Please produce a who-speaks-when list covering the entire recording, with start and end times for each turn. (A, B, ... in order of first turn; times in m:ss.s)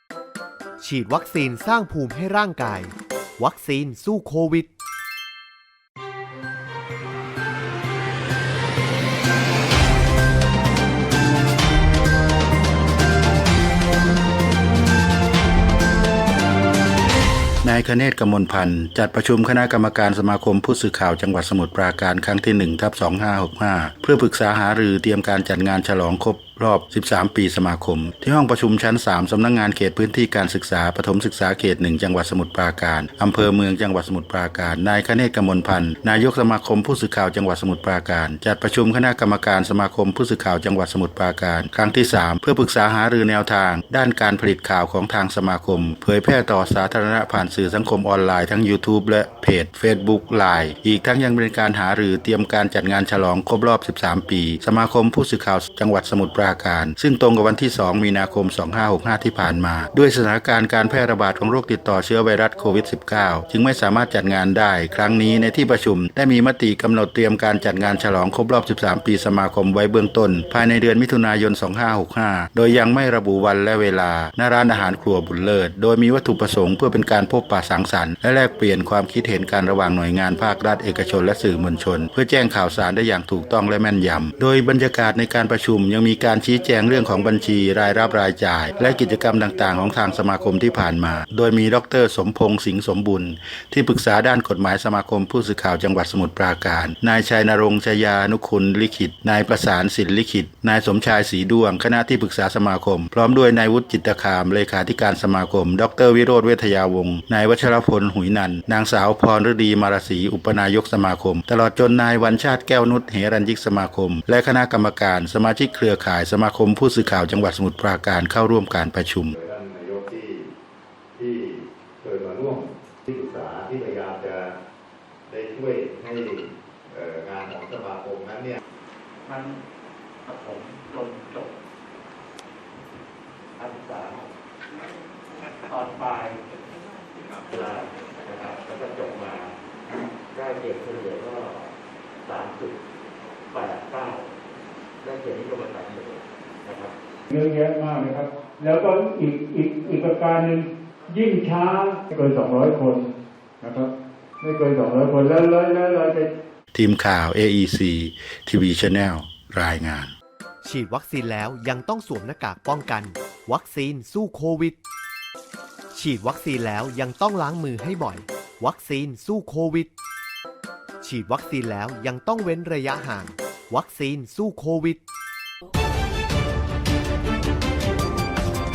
0:00.8-0:04.7 A
0:17.6-1:59.4 B
1:59.3-2:00.5 C
2:01.1-2:04.5 C
2:05.3-2:08.6 C
2:09.2-2:09.6 D
2:10.2-2:11.5 D
2:13.6-2:14.3 D
2:15.6-2:16.4 D
2:17.4-2:19.5 D
2:20.3-2:21.7 D
2:22.2-2:22.8 D
2:23.5-2:24.3 D
2:25.0-2:26.9 D
2:27.3-2:33.1 E
2:33.6-2:33.9 E
2:34.4-2:36.3 E
2:36.7-2:40.1 B
2:40.6-2:44.8 A
2:45.9-2:49.9 A
2:51.0-2:55.0 A